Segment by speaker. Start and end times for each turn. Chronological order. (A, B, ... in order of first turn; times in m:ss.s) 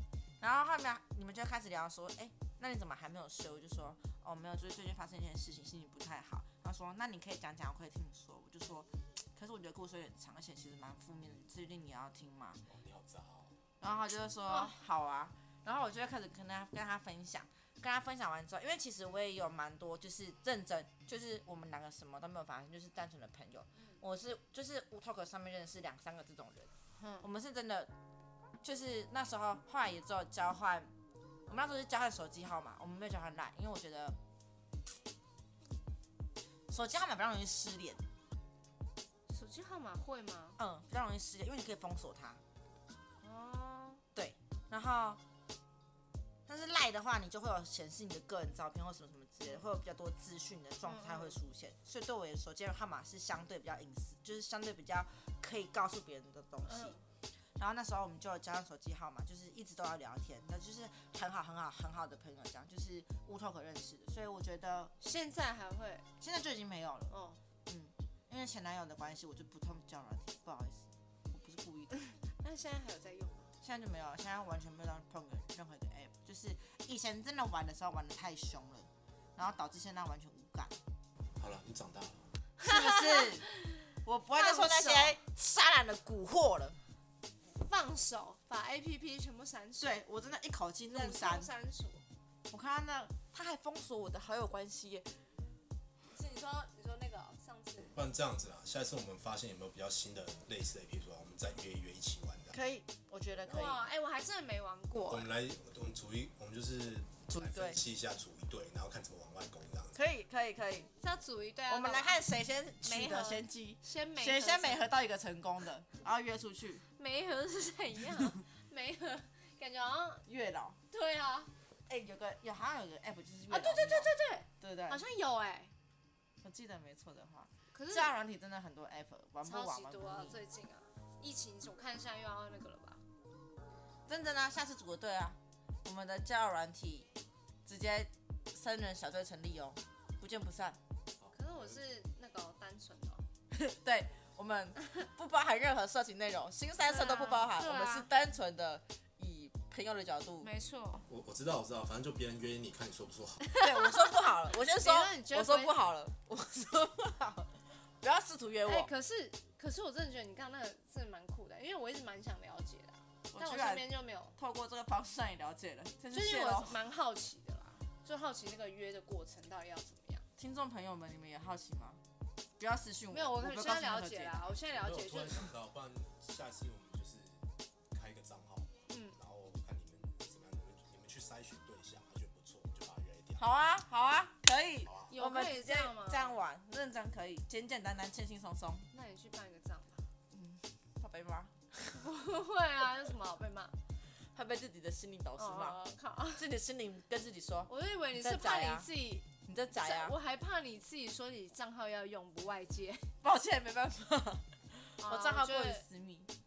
0:00.4-0:12.6 A
0:12.7-0:13.5 B
0:13.8-0:26.7 A
0:14.5-0:14.7 C
0:27.0-0:27.3 C
0:27.2-0:27.9 A
0:28.6-0:30.9 A
0:31.5-0:34.2 A
0:36.7-0:38.0 A
0:39.3-0:40.6 C
0:40.6-0:42.4 A
0:43.2-0:44.0 C
0:44.1-0:45.2 A
0:46.5-0:57.0 A
0:50.8-0:51.4 C
0:56.6-0:57.0 C
0:57.6-1:04.9 A
1:05.0-1:06.0 C
1:06.2-1:07.1 A
1:07.1-1:07.4 C
1:07.7-1:11.9 A
1:12.2-1:13.5 C
1:13.6-1:20.8 A
1:21.4-1:22.2 B
1:22.6-1:23.4 C
1:22.6-1:23.5 A
1:24.0-1:26.8 A
1:24.3-1:25.2 C
1:27.5-1:30.0 C
1:29.8-1:31.5 A
1:30.9-1:32.0 C
1:32.5-1:35.1 A
1:36.0-1:37.9 C
1:37.9-1:42.6 B
1:42.5-1:43.8 A
1:43.5-1:45.3 C
1:45.1-1:50.0 B
1:47.3-1:47.8 A
1:49.9-1:50.9 A
1:51.0-1:52.2 C
1:51.7-1:56.8 A
1:52.8-1:54.9 C
1:56.9-2:00.2 C
2:00.2-2:00.8 A
2:00.9-2:01.5 C
2:01.9-2:05.0 A
2:03.5-2:05.7 C
2:06.4-2:10.4 A
2:07.7-2:08.2 C
2:09.4-2:13.0 C
2:14.1-2:17.1 A
2:17.6-2:20.8 A
2:21.2-2:21.8 B
2:21.3-2:23.2 C
2:23.5-2:30.5 A
2:26.8-2:28.1 C
2:30.4-2:31.0 C
2:31.1-2:33.4 B
2:33.5-2:34.1 C
2:33.6-2:38.9 A
2:34.7-2:35.8 C
2:38.6-2:44.4 C
2:43.3-2:46.8 A
2:46.1-2:50.2 C
2:50.4-2:52.0 A
2:52.6-2:54.5 A
2:53.1-2:55.5 C
2:54.7-3:03.5 B
2:58.9-2:59.2 C
3:03.4-3:08.9 A
3:04.8-3:05.1 B
3:05.1-3:06.4 C
3:08.9-3:10.0 C
3:10.3-3:12.0 A
3:11.9-3:13.7 C
3:14.3-3:15.8 A
3:15.4-3:16.4 C
3:16.4-3:18.9 A
3:17.7-3:23.1 C
3:19.4-3:20.1 A
3:23.2-3:26.3 A
3:25.0-3:25.8 C